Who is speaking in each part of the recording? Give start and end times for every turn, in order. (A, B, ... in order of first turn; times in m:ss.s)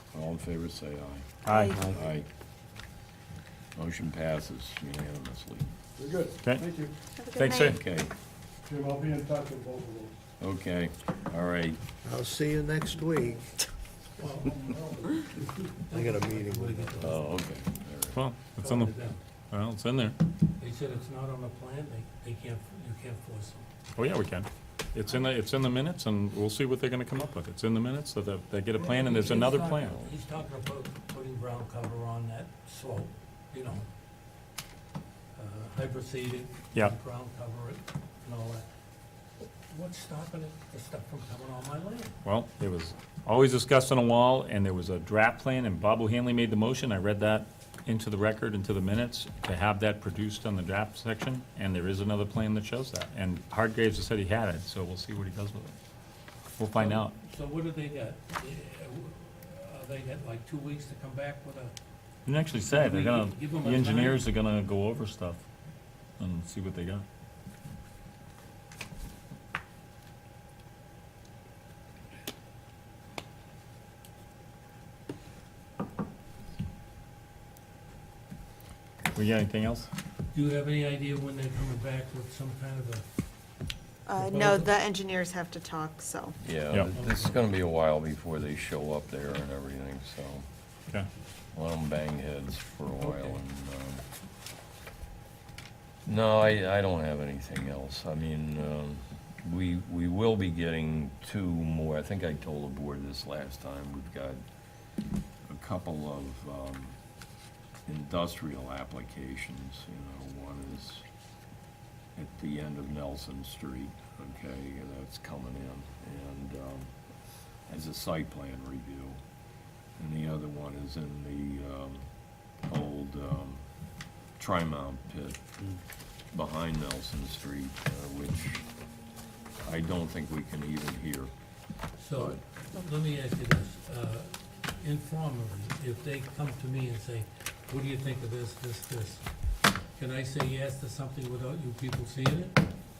0:00.1-0:02.3 A
0:01.5-0:01.8 B
0:01.5-0:01.9 C
0:03.8-0:05.6 A
0:06.0-0:06.9 D
0:07.2-0:07.8 C
0:07.4-0:07.8 B
0:07.6-0:08.1 A
0:08.7-0:10.2 D
0:10.4-0:11.8 A
0:12.0-0:13.6 E
0:14.2-0:17.4 F
0:14.5-0:15.3 D
0:15.9-0:17.2 E
0:17.0-0:18.2 A
0:18.1-0:19.0 B
0:18.6-0:19.2 F
0:19.5-0:20.2 B
0:20.6-0:23.7 F
0:24.0-0:30.0 B
0:28.8-0:33.9 F
0:35.4-0:38.7 F
0:39.7-0:42.2 F
0:42.2-0:55.7 B
0:56.6-0:57.2 B
0:56.8-1:01.7 F
1:02.3-1:05.4 B
1:02.7-1:04.2 F
1:06.2-1:07.0 B
1:19.2-1:19.9 B
1:20.3-1:23.1 F
1:24.1-1:26.4 C
1:24.2-1:24.7 F
1:26.4-1:30.4 A
1:26.9-1:27.4 F
1:31.5-1:34.0 A
1:36.1-1:44.4 A
1:45.5-1:47.0 A
1:47.9-1:51.0 A
1:52.2-1:56.9 A
1:57.7-1:59.2 A
2:00.0-2:02.1 A
2:02.6-2:03.6 A
2:04.4-2:05.4 A
2:06.3-2:08.7 A
2:09.6-2:11.3 A
2:12.0-2:19.2 F
2:12.1-2:12.4 A
2:20.0-2:22.7 F